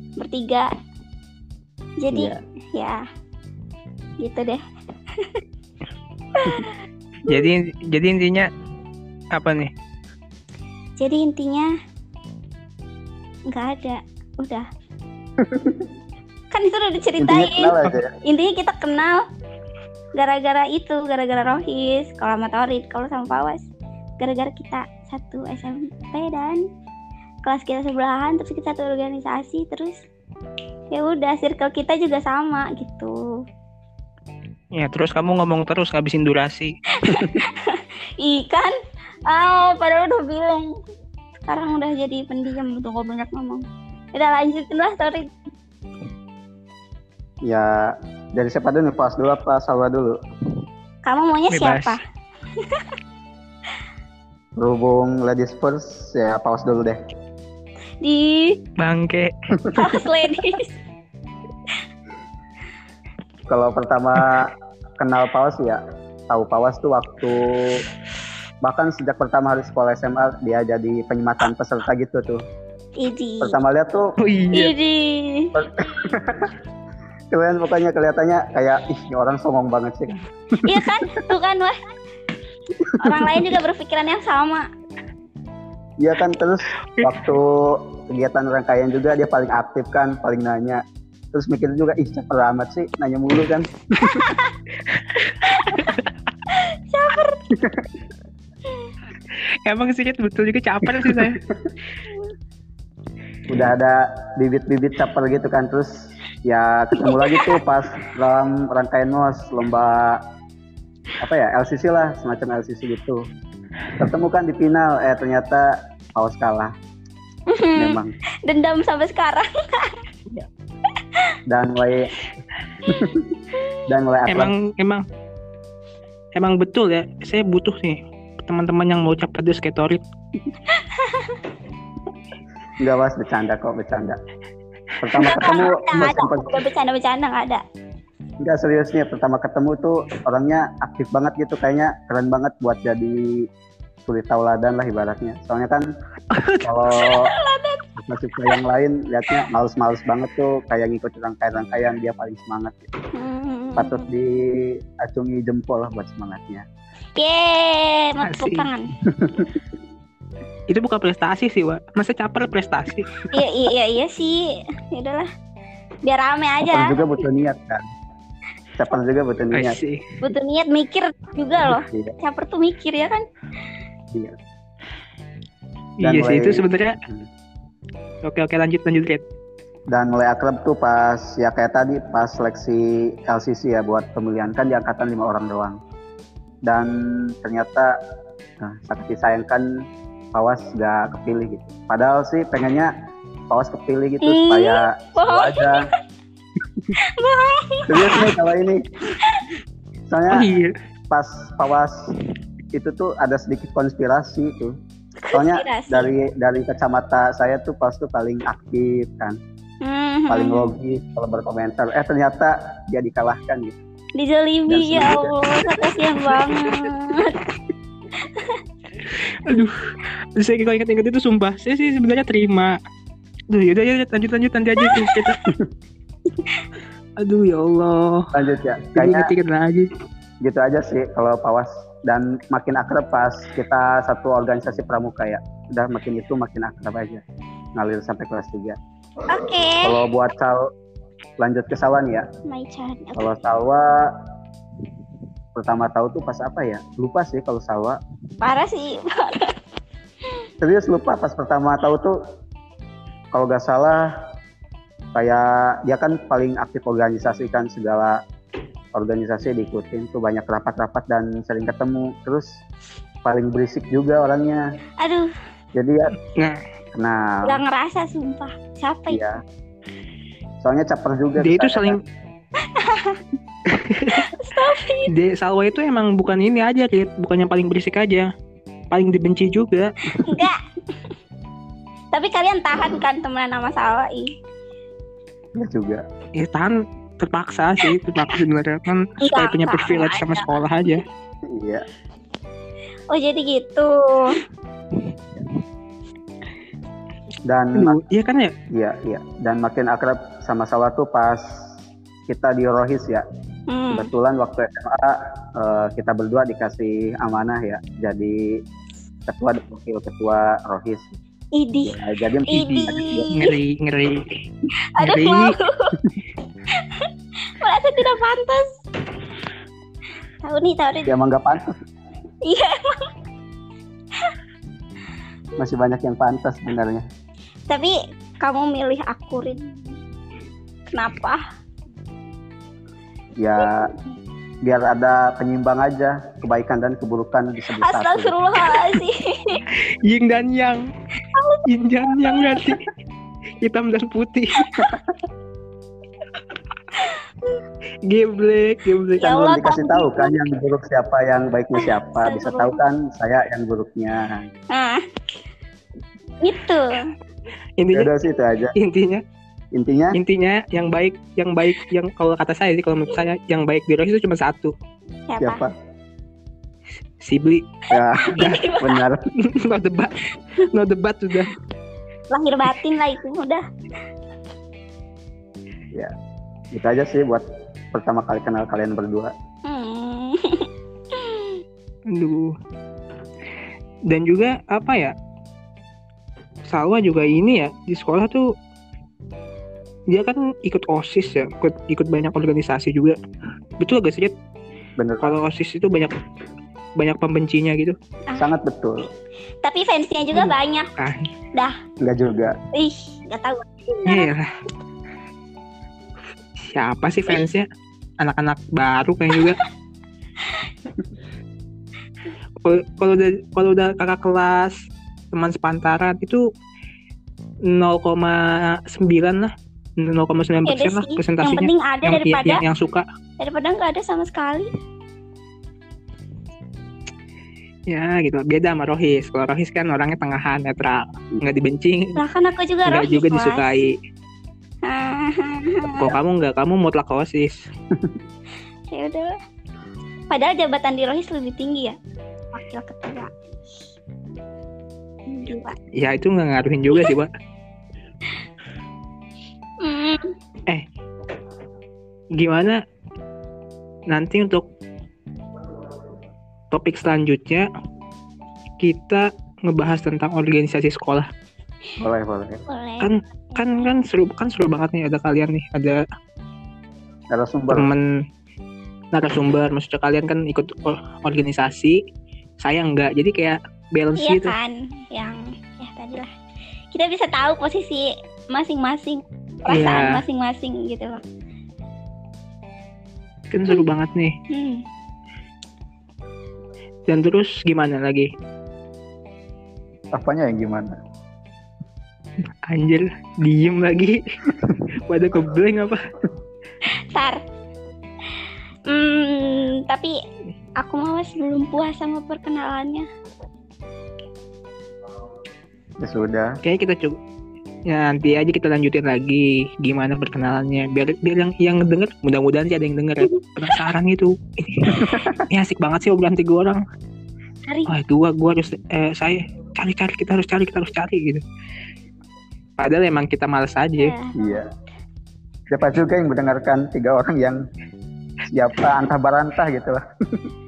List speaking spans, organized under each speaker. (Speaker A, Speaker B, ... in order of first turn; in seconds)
Speaker A: 0.2-0.7, 2.0-3.0, 4.2-4.6, 5.2-5.4, 6.3-7.5, 11.0-11.7, 13.5-14.7, 16.5-19.2, 20.2-23.7, 24.2-26.6, 27.4-30.1, 30.9-33.3, 37.0-38.7, 39.3-40.8, 41.5-45.3, 51.1-52.0, 52.6-52.9, 58.0-58.6, 59.7-60.8, 73.0-73.6, 74.5-75.6, 80.6-81.8, 83.0-84.7, 94.0-94.6, 95.5-97.4, 107.0-107.5, 117.5-120.0, 123.6-123.8, 130.7-131.4, 135.2-137.6, 146.9-147.9, 153.1-154.1, 157.2-158.9, 163.3-165.3, 166.1-167.0, 170.2-173.2, 194.2-195.9, 197.0-198.3, 199.2-199.5, 205.2-206.1, 209.8-210.7, 214.2-217.5, 218.2-218.6, 224.8-225.4, 226.4-226.7, 239.3-240.0, 242.5-243.3, 248.4-249.6, 265.0-265.3, 267.4-269.2, 272.6-273.2, 274.1-275.1, 280.1-281.0, 282.1-284.3, 289.2-290.6, 293.1-294.4, 303.7-304.1, 311.6-313.6, 314.9-316.0, 316.7-318.8, 320.4-321.1, 322.4-323.1, 327.7-329.7, 330.9-331.4, 337.8-339.6, 341.2-342.7, 344.6-344.9, 346.9-347.6, 349.2-350.4, 351.8-352.8, 354.7-355.1, 356.4-357.1, 365.3-365.6, 368.2-369.0, 372.3-373.6, 379.7-381.6, 399.6-400.9, 402.7-404.3, 420.7-422.6, 423.4-424.7, 432.2-433.8, 434.9-436.1, 438.9-439.3, 440.3-442.0, 442.5-443.3, 445.3-445.8, 449.8-450.3, 462.7-463.9, 474.2-476.3, 476.9-481.2, 484.5-484.9, 496.9-497.4, 498.9-500.2, 500.8-503.1, 517.7-517.9, 524.0-524.4
Speaker B: 2.1-2.4, 15.4-15.9, 17.2-18.1, 37.1-37.4, 47.4-50.2, 54.6-57.0, 59.6-60.0, 63.5-67.9, 68.6-72.4, 73.4-74.1, 75.5-76.5, 77.3-81.2, 82.8-83.4, 86.0-94.3, 97.5-97.9, 101.0-101.7, 103.5-110.2, 111.2-113.2, 114.0-116.7, 117.8-118.1, 121.5-122.2, 122.8-124.5, 132.8-134.2, 135.0-136.7, 138.4-143.5, 144.1-145.9, 146.6-147.3, 148.0-152.9, 153.8-156.7, 159.1-159.6, 166.7-167.9, 168.8-169.8, 171.9-172.1, 176.0-177.3, 179.9-185.8, 186.6-188.0, 188.6-189.7, 190.3-192.9, 193.5-195.9, 197.9-198.9, 200.1-200.5, 201.1-202.1, 202.7-204.8, 205.3-209.4, 210.3-213.8, 214.7-215.7, 228.3-229.3, 230.4-237.2, 237.8-238.8, 239.8-240.7, 241.4-242.3, 243.2-244.1, 245.6-248.0, 250.6-252.2, 253.3-254.1, 255.1-258.2, 258.9-262.6, 263.2-264.6, 265.8-266.2, 266.9-267.6, 269.1-269.4, 270.6-272.0, 285.6-286.0, 291.5-291.9, 297.4-298.0, 298.7-301.4, 302.3-303.2, 303.9-308.6, 309.3-311.2, 311.8-313.3, 321.1-321.7, 325.6-327.0, 333.4-333.9, 334.6-338.4, 349.2-354.5, 357.9-358.7, 359.7-360.2, 365.4-365.7, 367.9-369.3, 376.7-379.3, 395.0-395.4, 398.4-399.1, 402.0-402.6, 462.0-462.6, 467.3-467.9, 490.1-491.0, 506.0-506.6, 515.0-515.4, 524.4-524.7, 525.7-527.6, 528.5-530.5
Speaker C: 7.2-8.5, 9.3-9.7, 34.7-36.7, 51.5-52.0, 58.8-59.3, 74.2-74.7, 94.9-96.0, 99.7-101.4, 124.3-125.0, 126.3-130.0, 146.3-146.7, 158.2-158.7, 160.7-163.3, 169.5-170.2, 176.0-177.0, 178.2-179.2, 200.3-200.8, 219.1-219.8, 220.4-222.8, 223.5-225.4, 227.2-228.3, 229.0-229.9, 271.4-272.0, 273.7-274.3, 275.1-278.3, 278.9-279.9, 286.4-291.1, 297.8-298.5, 313.3-314.4, 315.0-315.6, 339.7-340.8, 341.7-342.9, 343.6-344.7, 348.1-349.3, 357.8-358.1, 358.8-359.2, 360.1-364.7, 367.2-367.8, 369.4-371.6, 382.1-382.5, 384.1-385.1, 386.7-388.5, 390.1-393.2, 393.8-394.3, 395.2-396.2, 397.0-398.0, 400.3-401.3, 404.1-404.5, 406.6-407.6, 408.2-409.6, 412.6-416.4, 417.7-423.1, 427.9-432.2, 432.9-433.9, 435.9-437.7, 445.9-447.3, 452.4-452.8, 454.1-454.7, 456.7-457.7, 458.8-461.3, 463.0-466.0, 467.7-468.1, 469.1-472.0, 472.6-474.6, 479.7-480.2, 483.5-484.4, 487.1-488.3, 492.7-494.2, 494.9-496.0, 506.6-507.2, 507.9-516.8, 517.9-521.4, 522.8-524.1